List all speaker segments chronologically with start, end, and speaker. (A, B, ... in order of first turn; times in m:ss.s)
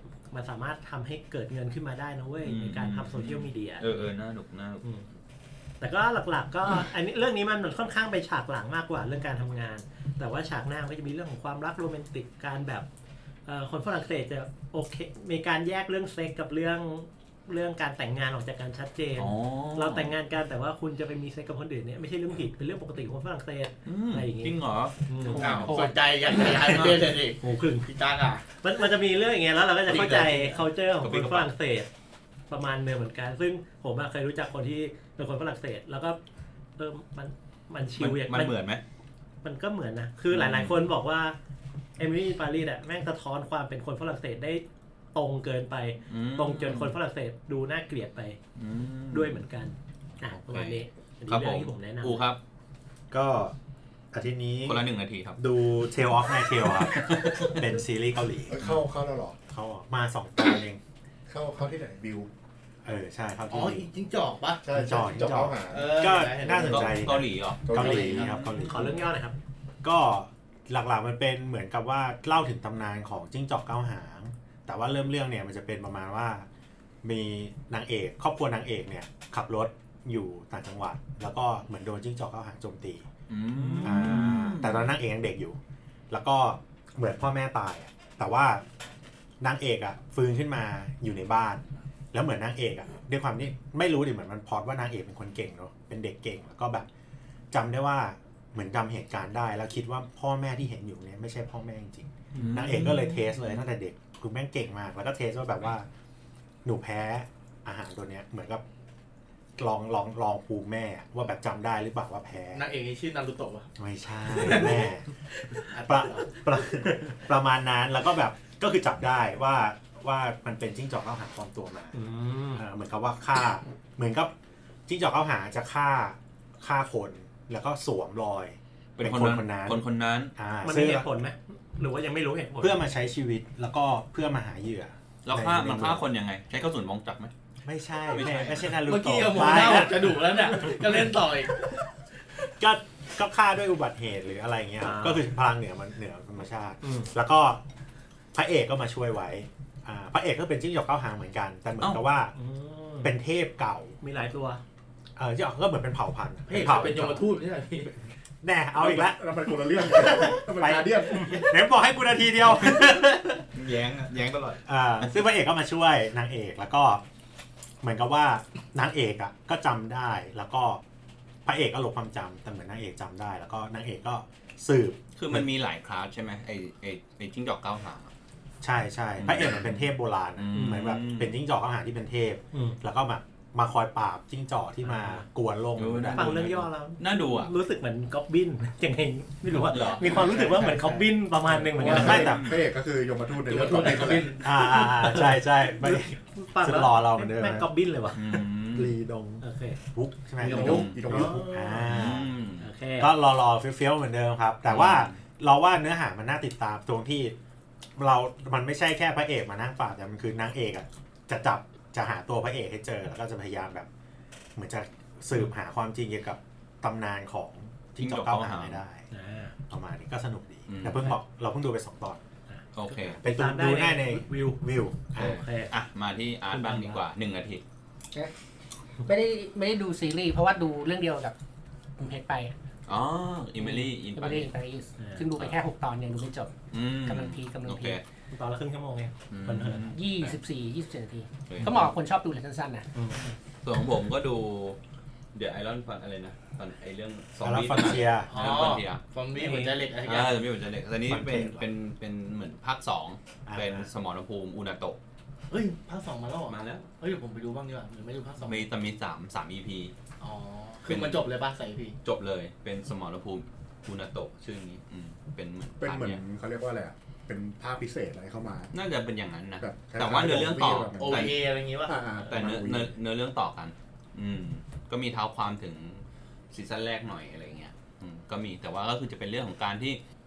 0:00.3-0:04.0 A
0:02.4-0:04.9 B
0:05.8-0:12.9 A
0:13.5-0:24.6 A
0:19.2-0:20.1 B
0:23.9-0:25.8 B
0:25.1-0:25.5 A
0:25.3-0:26.0 C
0:25.4-0:28.4 D
0:27.4-0:27.9 A
0:28.5-0:31.9 A
0:29.9-0:30.6 D
0:31.0-0:31.5 B
0:32.5-0:36.2 A
0:36.8-0:38.6 A
0:38.0-0:38.8 B
0:39.4-0:41.4 A
0:40.3-0:40.8 B
0:42.0-0:48.4 A
0:46.1-0:46.9 B
0:48.6-0:49.4 B
0:49.1-0:52.2 A
0:50.3-0:52.4 B
0:53.1-0:53.6 E
0:54.1-0:54.8 E
0:54.6-0:55.4 B
0:55.4-0:58.6 E
0:56.9-0:57.6 B
0:58.5-0:59.4 F
0:59.5-1:00.8 E
1:01.3-1:02.3 F
1:02.8-1:03.9 E
1:03.5-1:04.6 D
1:04.6-1:06.0 F
1:04.7-1:09.0 E
1:05.7-1:07.1 D
1:06.7-1:09.0 B
1:07.6-1:08.3 F
1:08.5-1:09.4 A
1:09.8-1:16.5 E
1:17.0-1:23.0 E
1:23.3-1:24.9 B
1:23.5-1:24.4 A
1:23.8-1:25.6 E
1:26.1-1:28.6 E
1:29.4-1:36.9 E
1:37.5-1:45.9 E
1:42.3-1:42.7 A
1:42.4-1:43.3 B
1:46.6-1:48.6 E
1:49.6-1:52.7 E
1:52.5-1:53.7 D
1:53.8-1:55.1 E
1:54.3-1:54.9 D
1:55.5-1:56.6 D
1:55.7-2:02.0 E
2:01.9-2:02.6 A
2:02.6-2:04.3 E
2:04.9-2:09.8 E
2:09.0-2:10.3 B
2:10.4-2:11.1 E
2:10.6-2:12.8 A
2:12.6-2:16.0 E
2:15.2-2:17.3 B
2:17.6-2:20.9 E
2:18.1-2:18.8 B
2:18.8-2:21.7 D
2:22.4-2:27.6 E
2:24.8-2:25.2 A
2:26.8-2:27.1 A
2:28.3-2:32.3 E
2:32.4-2:33.2 A
2:33.0-2:34.0 E
2:34.0-2:34.6 A
2:35.2-2:37.3 E
2:36.5-2:38.0 D
2:38.4-2:43.5 E
2:38.8-2:41.5 F
2:43.5-2:45.1 B
2:44.6-2:47.0 E
2:47.8-2:50.8 E
2:51.4-2:55.4 E
2:55.2-2:58.1 B
2:58.6-3:06.3 E
2:59.2-3:01.4 B
3:00.5-3:00.8 A
3:02.5-3:02.8 A
3:04.9-3:05.2 A
3:05.8-3:07.5 B
3:06.1-3:12.3 A
3:09.6-3:10.8 B
3:11.8-3:14.4 F
3:11.8-3:12.6 E
3:12.0-3:12.6 B
3:13.4-3:14.6 D
3:14.4-3:17.7 E
3:14.6-3:18.4 A
3:18.2-3:19.0 B
3:18.7-3:22.4 E
3:19.4-3:19.8 A
3:20.4-3:21.5 F
3:20.5-3:21.2 B
3:20.6-3:21.8 A
3:21.8-3:22.6 B
3:22.6-3:23.1 A
3:23.0-3:27.4 E
3:24.7-3:25.2 B
3:28.0-3:33.9 E
3:34.6-3:39.0 E
3:38.0-3:38.8 B
3:39.1-3:39.6 A
3:39.7-3:42.2 E
3:40.7-3:41.2 B
3:42.5-3:44.6 A
3:42.8-3:43.2 B
3:43.2-3:45.4 E
3:45.1-3:45.7 A
3:45.2-3:47.6 B
3:46.5-3:47.0 A
3:49.0-3:51.4 C
3:52.0-3:52.5 C
3:52.9-3:54.5 B
3:53.6-3:56.5 C
3:55.0-3:55.3 A
3:56.7-3:58.0 B
3:57.0-3:58.0 C
3:58.3-3:59.9 A
3:59.3-4:00.4 B
3:59.9-4:02.9 C
4:01.5-4:01.9 B
4:03.0-4:03.3 A
4:03.6-4:04.8 B
4:05.4-4:09.0 B
4:07.4-4:08.3 E
4:08.3-4:10.4 D
4:09.4-4:09.8 A
4:10.0-4:15.0 B
4:11.1-4:11.7 E
4:13.5-4:13.9 E
4:15.5-4:18.7 D
4:16.5-4:16.9 B
4:18.4-4:19.9 B
4:20.2-4:22.0 D
4:20.9-4:21.2 B
4:22.0-4:26.2 B
4:25.8-4:28.7 F
4:28.7-4:31.4 B
4:29.6-4:32.9 F
4:30.9-4:32.0 D
4:32.3-4:40.0 B